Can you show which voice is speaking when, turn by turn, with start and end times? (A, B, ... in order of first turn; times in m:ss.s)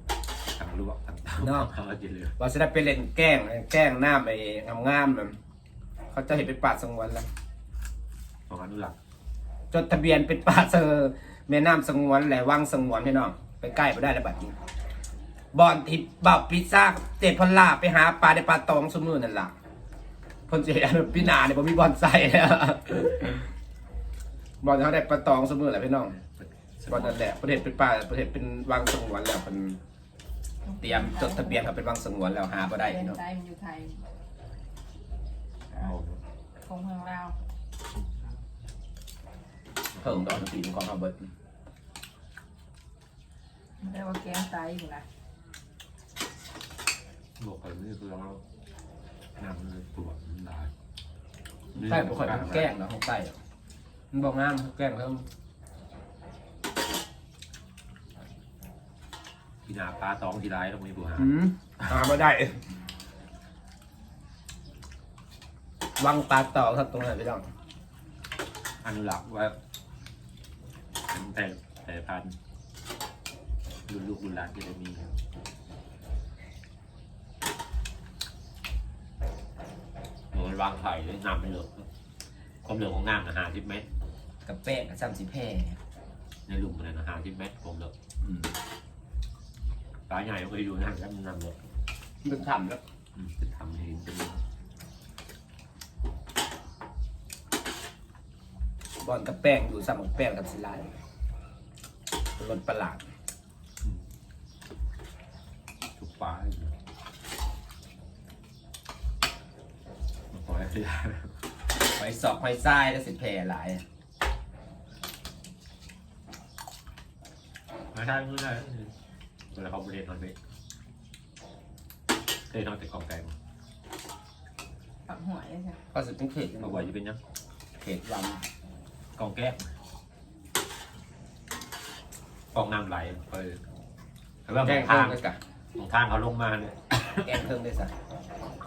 0:00.6-0:02.4 A
0:01.4-0:01.7 B
0:02.4-0:05.4 B
0:06.1-0:07.3 B
0:08.5-0:09.0 A
0:09.7-0:14.5 B
0:15.5-0:19.5 B
0:20.5-0:23.4 B
0:24.6-0:26.1 B
0:26.1-0:27.3 A
0:26.9-0:29.8 B
0:30.6-0:31.7 C
0:30.8-0:33.2 B
0:32.7-0:34.0 C
0:35.7-0:36.2 A
0:36.6-0:37.4 C
0:40.0-0:40.4 A
0:40.0-0:41.2 B
0:43.8-0:45.1 C
0:47.4-0:48.4 A
0:49.4-0:50.7 A
0:51.7-0:52.8 A
0:51.8-0:53.4 B
0:54.1-0:55.2 B
0:59.7-1:01.3 A
1:01.2-1:02.6 B
1:06.0-1:07.5 B
1:08.8-1:09.6 A
1:11.1-1:12.4 A
1:13.9-1:15.2 A
1:20.3-1:21.9 A
1:22.6-1:23.9 A
1:24.4-1:25.8 B
1:26.5-1:27.9 A
1:28.2-1:28.6 B
1:30.1-1:31.6 A
1:32.2-1:32.8 B
1:33.2-1:34.4 A
1:39.0-1:40.9 B
1:42.4-1:43.0 B
1:46.0-1:46.7 A
1:50.3-1:51.4 A
1:51.8-1:53.8 B
1:57.9-1:58.9 A
1:59.5-2:00.4 A
2:02.5-2:03.4 A
2:05.1-2:05.8 C
2:05.9-2:06.9 B
2:06.6-2:07.2 A
2:07.8-2:08.4 B
2:09.2-2:09.7 A
2:12.5-2:13.6 A
2:14.5-2:15.2 A
2:14.6-2:15.4 B
2:15.8-2:17.2 A
2:17.2-2:17.9 B